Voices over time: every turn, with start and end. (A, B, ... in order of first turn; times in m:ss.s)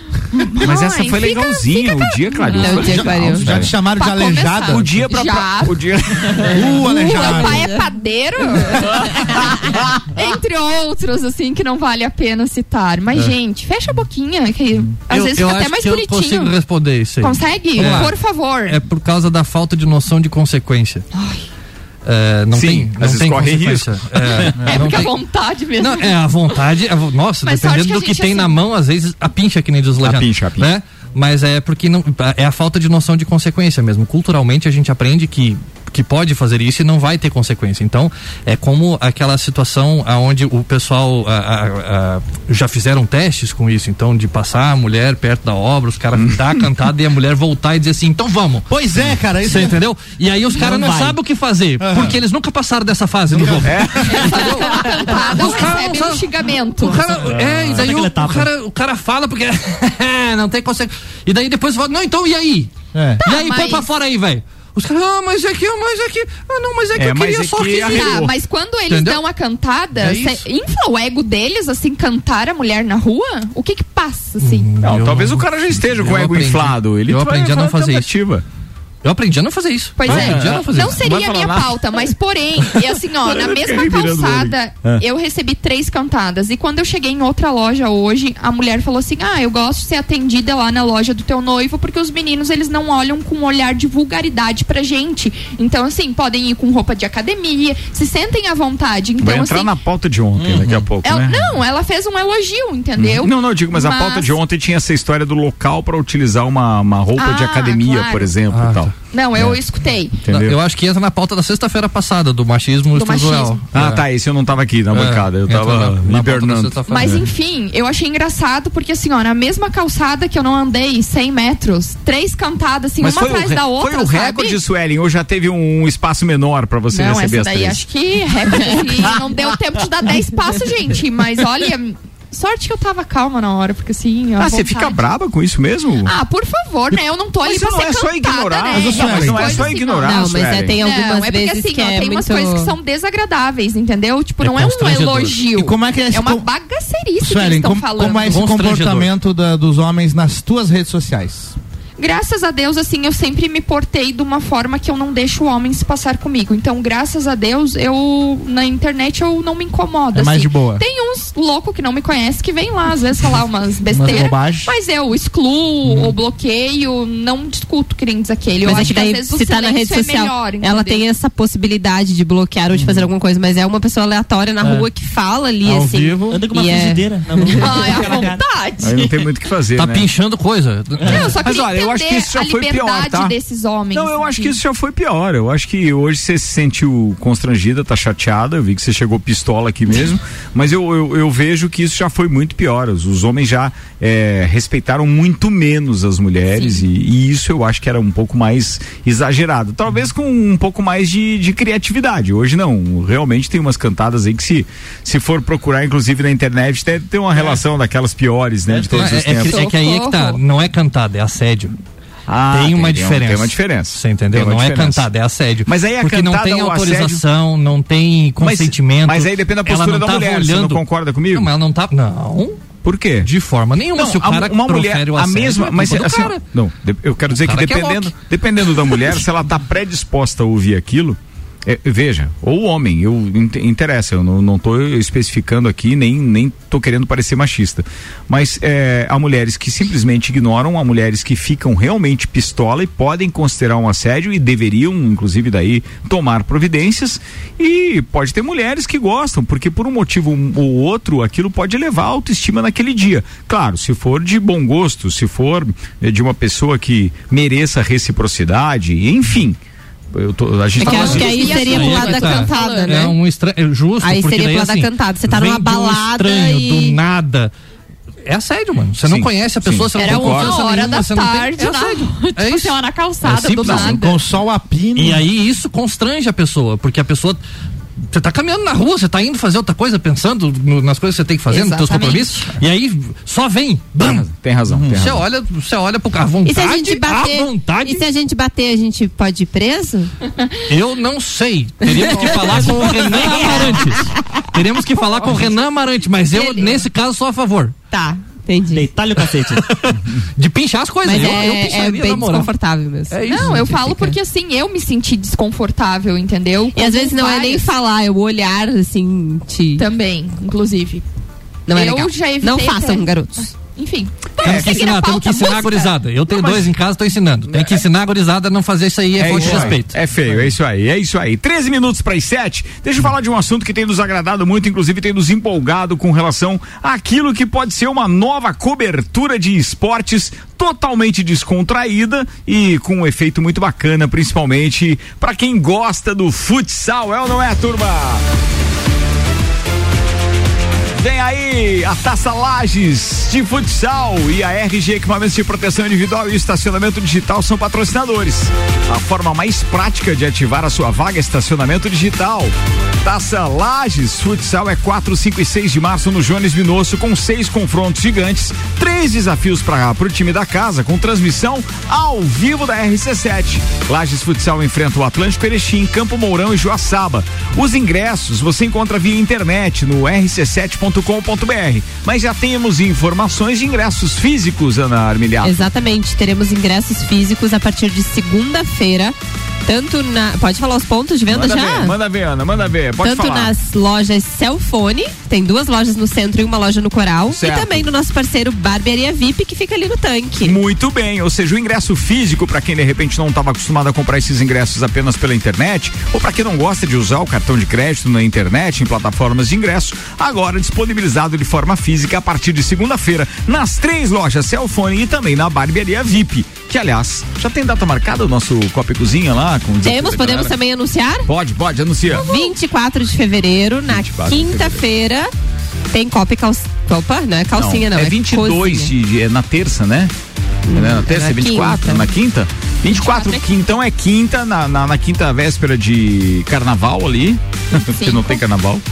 0:00.3-0:16.5 A
0:00.6-0:03.7 B
0:02.5-0:03.4 C
0:03.4-0:04.9 D
0:04.7-0:06.7 B
0:06.5-0:07.6 D
0:07.1-0:07.8 C
0:08.7-0:09.8 B
0:15.0-0:21.0 E
0:17.2-0:18.8 A
0:21.1-0:21.4 A
0:22.0-0:25.2 E
0:22.5-0:24.6 B
0:24.5-0:26.6 A
0:25.8-0:48.7 E
0:27.4-0:28.6 A
0:30.0-0:30.7 B
0:48.7-0:49.8 D
0:49.4-1:02.7 E
0:50.6-0:51.2 F
0:51.8-0:52.2 D
0:53.3-0:54.2 D
0:53.6-0:54.6 B
0:54.1-0:57.1 A
0:57.3-0:58.5 F
1:02.9-1:03.2 D
1:03.2-1:03.9 A
1:03.2-1:08.3 E
1:07.0-1:08.3 B
1:07.8-1:14.7 A
1:08.9-1:09.2 E
1:10.0-1:10.4 E
1:14.4-1:18.1 E
1:14.8-1:18.4 B
1:19.0-1:21.0 E
1:20.0-1:39.7 A
1:20.0-1:22.0 B
1:23.2-1:25.0 B
1:39.2-1:41.5 B
1:40.4-1:40.9 E
1:41.0-1:44.4 A
1:43.0-1:49.6 B
1:47.2-1:48.4 A
1:48.5-1:49.4 E
1:49.1-1:50.2 A
1:50.2-1:50.6 B
1:50.3-1:54.0 E
1:52.9-1:53.6 A
1:53.7-1:57.2 B
1:54.9-1:57.2 E
1:56.9-2:04.6 A
2:03.0-2:07.8 B
2:06.9-2:15.0 A
2:08.6-2:09.2 B
2:14.4-2:16.1 B
2:16.0-2:28.4 A
2:16.9-2:20.8 B
2:18.7-2:19.6 D
2:20.0-2:22.7 C
2:24.4-2:25.5 E
2:25.5-2:26.4 D
2:27.2-2:31.5 D
2:28.2-2:29.1 E
2:32.0-2:51.0 A
2:40.1-2:40.8 D
2:43.9-2:44.7 D
2:48.6-2:58.0 C
2:52.7-2:53.1 D
2:54.6-2:54.9 D
2:55.6-2:56.4 D
2:56.3-2:58.4 F
2:57.5-2:59.2 A
2:58.8-3:00.1 B
2:59.7-3:01.4 E
3:01.0-3:04.6 A
3:01.1-3:03.3 B
3:03.9-3:29.6 B
3:16.5-3:16.8 A
3:28.9-3:31.8 E
3:29.3-3:30.4 A
3:32.3-3:35.1 B
3:32.5-3:42.6 E
3:35.6-3:37.2 B
3:38.4-3:41.5 B
3:42.8-3:43.3 B
3:43.2-3:46.4 E
3:43.9-4:19.6 B
3:47.3-3:48.2 E
4:20.1-4:21.5 B
4:20.7-4:23.1 A
4:20.8-4:23.1 C
4:20.9-4:27.5 E
4:24.0-4:27.0 C
4:28.2-4:33.9 E
4:29.0-4:30.6 B
4:30.0-4:34.2 A
4:33.2-4:34.0 B
4:33.9-4:35.3 D
4:35.0-4:37.4 E
4:38.1-4:44.2 E
4:41.5-4:42.6 A
4:44.0-4:45.2 B
4:44.7-4:45.0 D
4:44.9-4:48.0 E
4:46.4-4:50.1 C
4:50.7-4:57.7 E
4:52.0-4:53.7 A
4:52.1-4:54.0 C
4:55.1-4:55.6 A
4:56.3-4:56.8 C
4:57.9-4:58.8 C
4:58.7-4:59.7 F
4:59.6-5:02.5 E
5:01.0-5:03.2 C
5:03.1-5:04.2 E
5:03.2-5:07.7 A
5:06.7-5:09.8 C
5:09.8-5:11.0 A
5:11.7-5:13.5 C
5:11.7-5:16.0 A
5:14.4-5:20.0 E
5:14.4-5:14.9 B
5:16.3-5:16.7 B
5:17.5-5:17.8 B
5:19.2-5:38.2 B
5:41.0-6:15.6 B
6:15.4-6:21.9 C
6:21.3-6:23.5 B
6:23.0-6:30.6 C
6:27.3-6:27.8 B
6:30.4-6:50.5 B
6:49.8-6:51.3 C
6:51.2-6:52.3 B
6:52.2-6:55.3 C
6:53.9-6:54.8 B
6:55.9-6:58.9 C
6:57.6-7:00.1 B
7:00.7-7:02.1 C
7:00.7-7:08.8 B
7:02.9-7:03.5 C
7:07.7-7:08.4 A